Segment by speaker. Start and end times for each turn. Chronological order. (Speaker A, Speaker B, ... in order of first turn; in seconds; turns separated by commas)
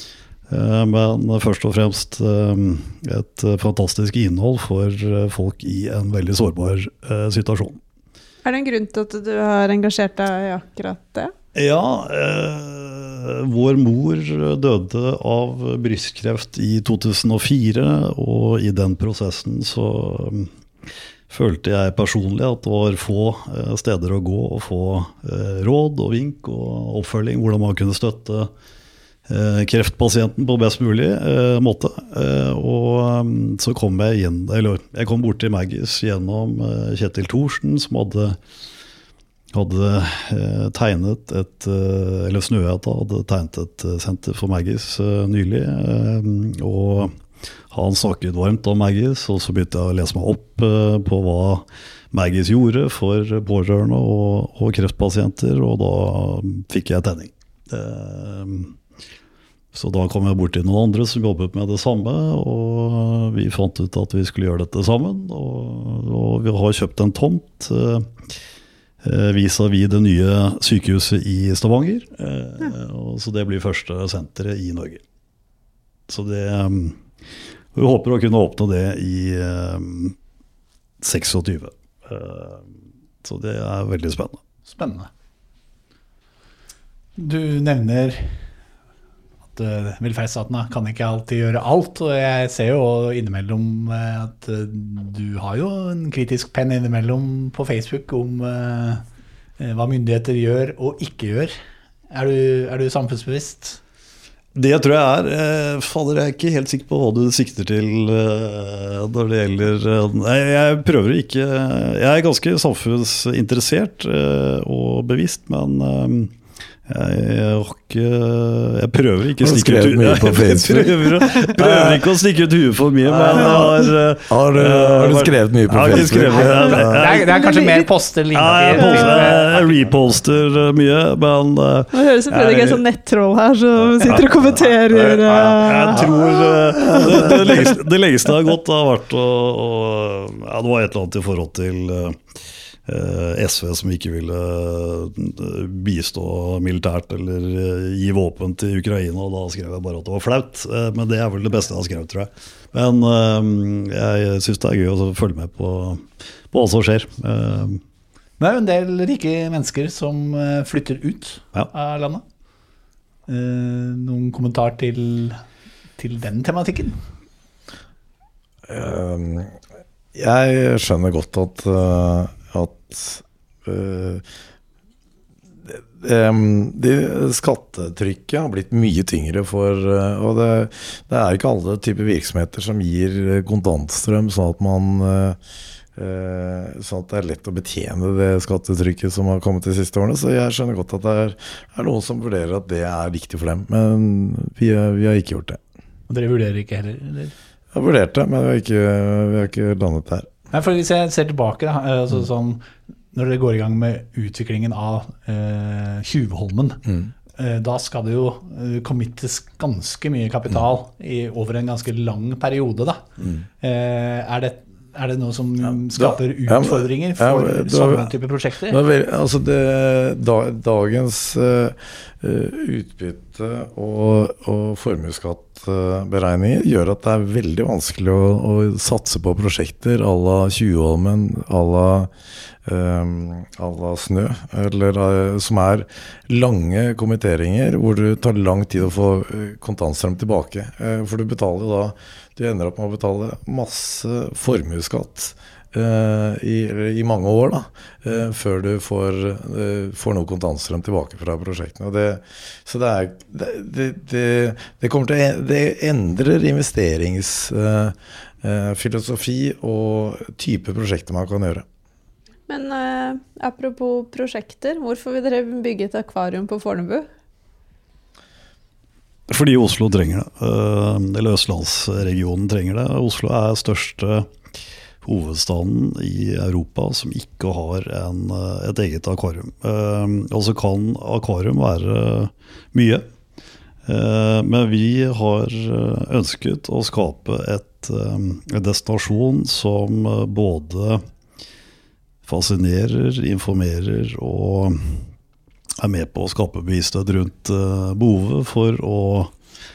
Speaker A: 0.5-7.8, Speaker B: 8.4-11.3, Speaker A: 11.5-28.5, Speaker A: 29.3-38.4, Speaker A: 39.5-47.1, Speaker A: 47.7-58.8, Speaker A: 59.7-68.1, Speaker A: 69.0-75.0, Speaker A: 76.1-77.0, Speaker A: 77.7-80.2, Speaker A: 81.0-82.7, Speaker A: 83.2-84.4, Speaker C: 84.7-85.1, Speaker C: 87.2-88.4, Speaker C: 89.5-99.0, Speaker C: 99.6-101.5, Speaker C: 102.1-103.8, Speaker A: 104.5-116.3, Speaker A: 116.8-127.5, Speaker D: 119.4-122.0, Speaker D: 123.0-127.0, Speaker C: 126.3-130.0, Speaker B: 127.4-127.8, Speaker A: 128.3-132.8, Speaker B: 128.8-129.3, Speaker B: 131.9-137.7, Speaker A: 133.8-142.2, Speaker A: 142.8-157.8, Speaker C: 158.4-162.2, Speaker C: 163.3-165.4, Speaker C: 166.0-167.0, Speaker D: 168.7-169.6, Speaker D: 170.1-174.2, Speaker D: 175.7-185.4, Speaker D: 185.9-195.6, Speaker C: 196.1-197.3, Speaker D: 197.7-200.3, Speaker C: 200.5-218.8, Speaker D: 215.7-218.1, Speaker D: 218.7-232.1, Speaker D: 232.7-261.6, Speaker B: 262.5-267.1, Speaker A: 269.3-274.3, Speaker A: 275.0-283.1, Speaker A: 283.9-291.0, Speaker A: 292.2-295.1, Speaker A: 295.8-299.3